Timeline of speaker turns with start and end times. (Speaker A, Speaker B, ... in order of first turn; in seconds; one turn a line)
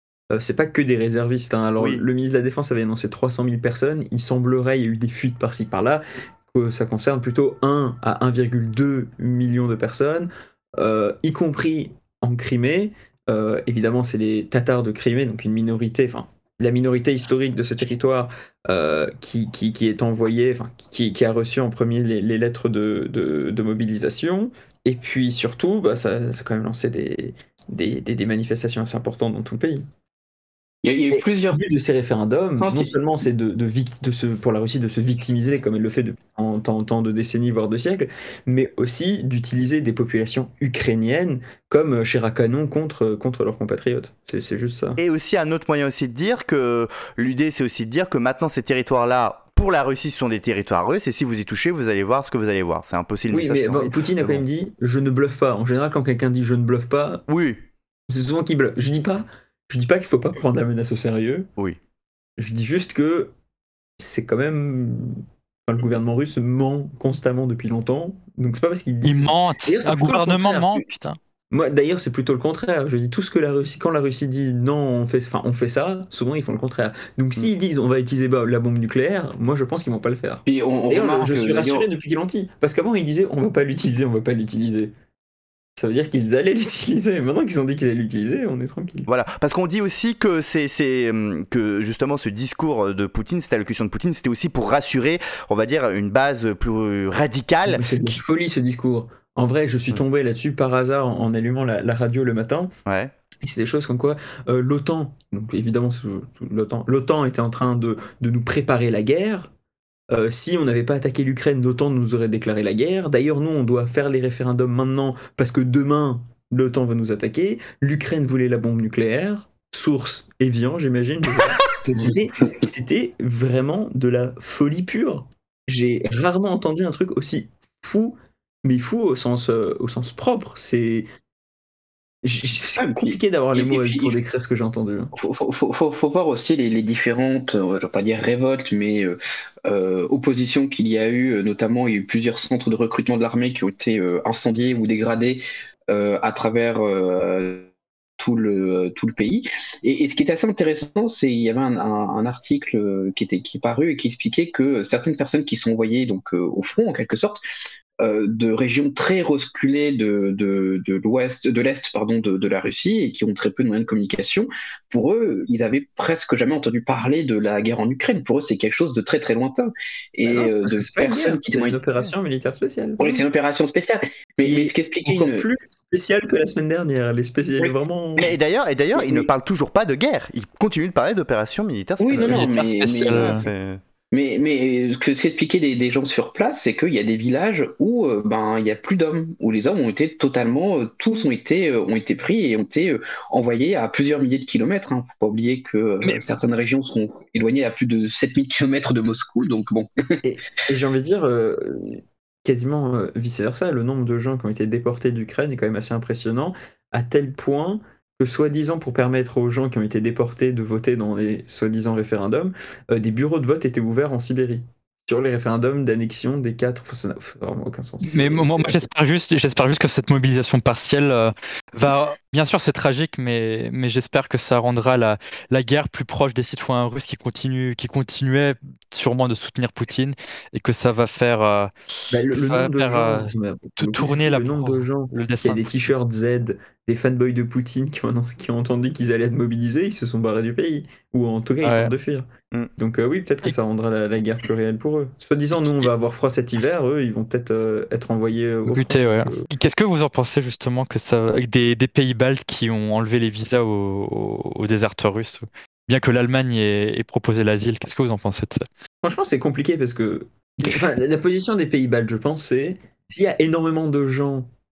Speaker A: 0.3-29.9
Speaker B: 30.8-31.6
Speaker A: 31.1-45.0
Speaker B: 32.6-33.0
Speaker C: 45.0-54.5
Speaker A: 53.3-57.2
Speaker C: 57.3-57.6
Speaker A: 58.1-61.5
Speaker A: 62.4-63.3
Speaker A: 64.0-70.8
Speaker D: 69.0-71.2
Speaker A: 71.5-84.9
Speaker B: 80.5-81.9
Speaker A: 85.8-89.1
Speaker C: 89.1-98.2
Speaker A: 97.7-102.7
Speaker C: 102.9-103.1
Speaker A: 103.4-109.5
Speaker A: 110.1-131.1
Speaker A: 132.2-135.1
Speaker B: 132.8-134.2
Speaker B: 135.2-157.4
Speaker B: 158.0-171.8
Speaker A: 170.2-173.2
Speaker B: 173.0-175.5
Speaker A: 174.4-178.3
Speaker C: 178.2-182.5
Speaker B: 178.9-179.3
Speaker B: 182.0-183.4
Speaker D: 182.2-183.4
Speaker C: 183.2-183.8
Speaker B: 184.1-199.9
Speaker A: 200.2-218.9
Speaker D: 218.1-231.7
Speaker A: 232.1-242.3
Speaker D: 232.3-236.0
Speaker D: 241.6-241.9
Speaker A: 242.8-249.5
Speaker D: 245.6-245.9
Speaker D: 248.7-258.6
Speaker A: 259.0-264.5